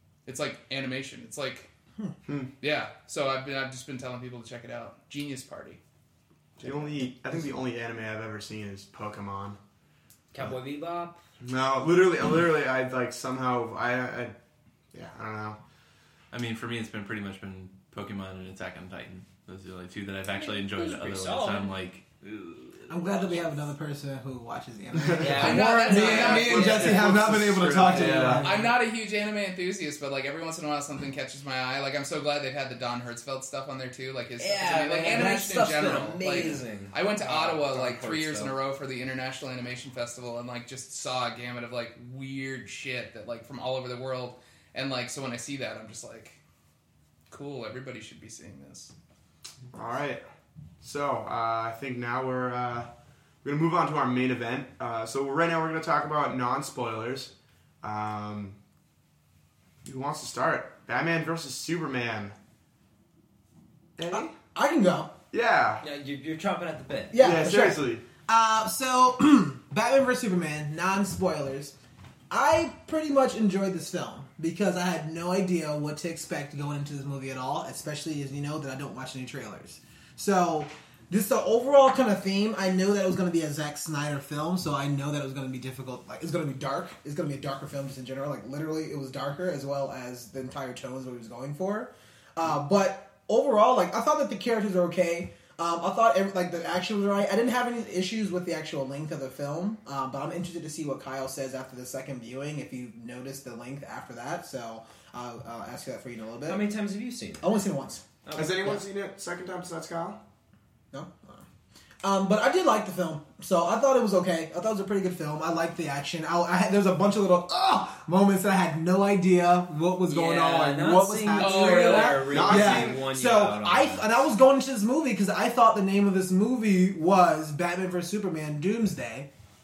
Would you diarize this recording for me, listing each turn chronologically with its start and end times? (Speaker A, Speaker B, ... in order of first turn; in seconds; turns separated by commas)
Speaker A: 0.3-1.7, Speaker A: 2.6-5.8, Speaker B: 6.6-9.6, Speaker C: 10.3-11.2, Speaker B: 11.4-14.3, Speaker B: 14.9-15.6, Speaker D: 16.3-23.6, Speaker C: 20.3-21.8, Speaker E: 22.9-28.7, Speaker B: 24.9-25.5, Speaker C: 25.2-28.7, Speaker A: 25.4-27.1, Speaker D: 26.6-28.3, Speaker B: 27.9-28.5, Speaker A: 28.4-46.4, Speaker C: 34.4-38.5, Speaker A: 47.3-48.9, Speaker B: 49.7-50.2, Speaker B: 50.8-52.9, Speaker B: 53.4-58.6, Speaker B: 59.8-62.4, Speaker B: 64.0-64.3, Speaker E: 64.1-65.1, Speaker B: 65.3-65.8, Speaker C: 65.8-67.2, Speaker E: 67.1-71.7, Speaker B: 67.2-68.0, Speaker E: 72.3-106.7, Speaker C: 106.5-107.5, Speaker E: 107.4-108.2, Speaker C: 108.2-108.8, Speaker B: 108.3-110.2, Speaker E: 110.9-111.5, Speaker E: 112.0-129.3, Speaker C: 120.1-124.2, Speaker A: 121.4-122.2, Speaker B: 122.3-123.1